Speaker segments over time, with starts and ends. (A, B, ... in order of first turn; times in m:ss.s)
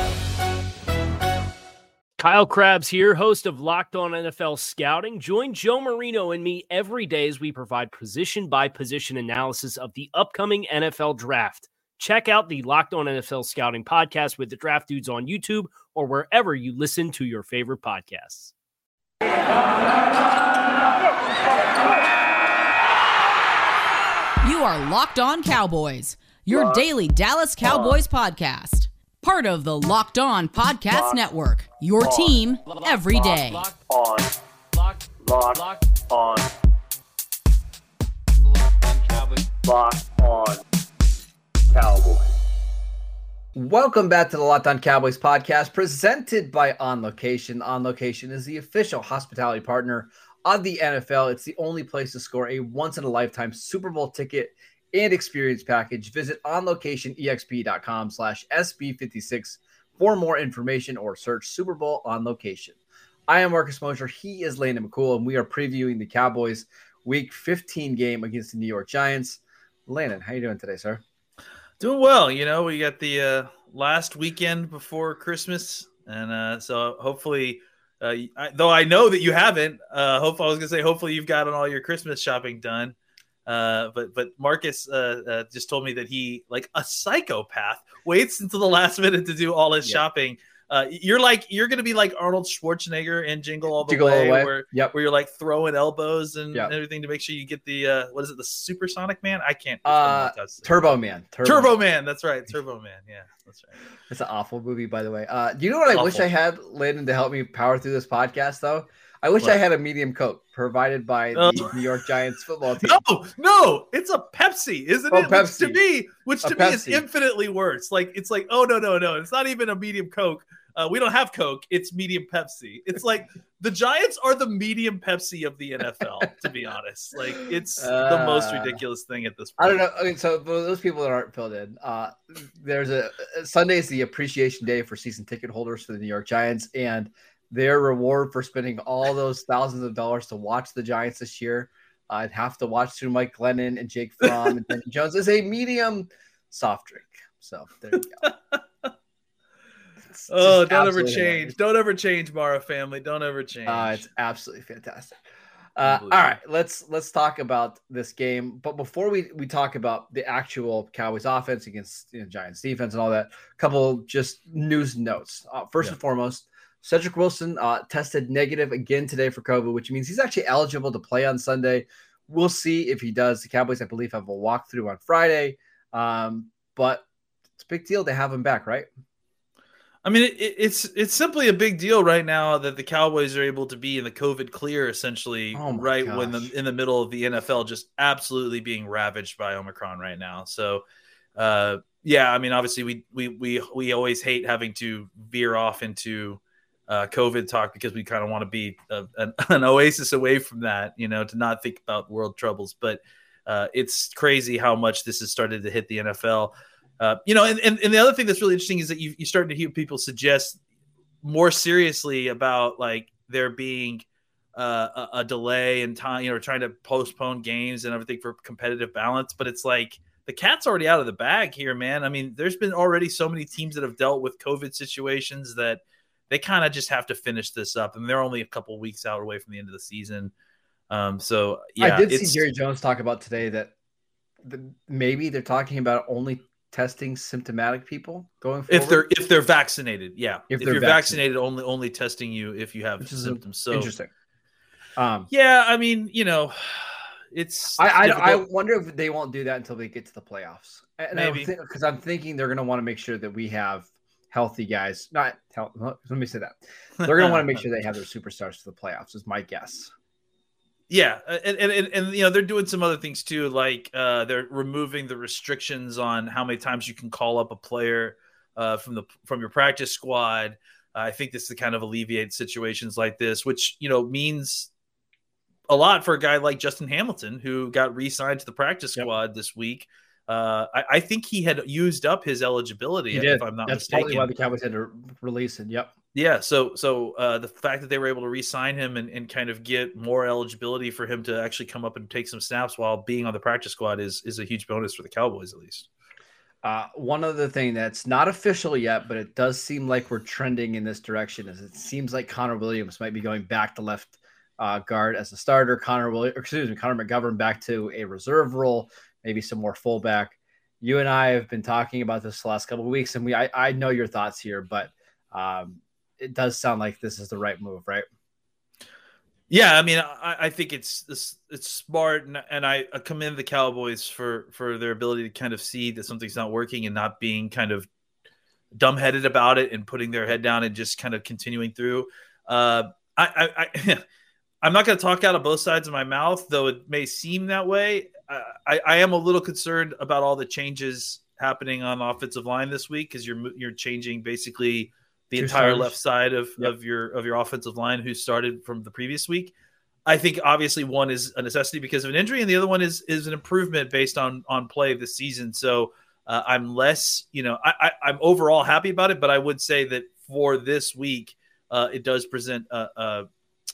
0:02.2-0:18.5 A
0:24.4-0:33.7 B
0:26.5-0:26.8 C
0:27.6-0:28.0 C
0:30.9-0:31.2 C
0:32.0-0:32.3 C
0:33.7-0:34.3 C
0:35.2-0:36.5 C
0:38.8-0:40.6 C
0:41.7-0:42.3 C
0:43.5-1:11.0 D
1:11.8-1:22.9 E
1:23.4-1:40.7 E
1:33.8-1:34.9 D
1:39.8-1:41.7 D
1:41.4-1:43.8 E
1:44.1-1:53.0 D
1:45.9-1:46.2 E
1:51.3-1:51.8 E
1:52.8-2:09.8 E
1:55.1-1:55.8 D
1:56.4-1:57.0 D
2:07.8-2:08.8 D
2:09.6-2:28.2 D
2:28.2-2:28.6 E
2:30.2-2:31.5 D
2:30.3-2:34.0 E
2:33.6-2:35.2 D
2:35.8-2:57.0 D
2:35.8-2:36.3 E
2:57.6-2:58.9 D
3:00.0-3:10.8 E
3:05.5-3:06.5 D
3:11.4-3:30.6 E
3:31.2-3:34.0 E
3:34.6-3:50.3 E
3:50.9-3:52.4 E
3:51.8-3:53.7 D
3:54.4-3:59.0 D
3:58.7-4:03.9 E
4:00.5-4:01.2 D
4:03.0-4:04.1 D
4:05.0-4:05.3 D
4:05.3-4:08.4 E
4:07.8-4:19.9 D
4:11.1-4:11.5 E
4:17.0-4:17.6 E
4:20.9-4:34.7 E
4:35.7-4:44.3 E
4:43.1-4:45.9 D
4:46.1-4:55.9 E
4:56.6-5:18.0 D
5:19.5-5:27.9 E
5:28.8-5:34.0 E
5:34.6-5:49.5 E
5:45.4-5:45.9 D
5:50.0-6:03.3 E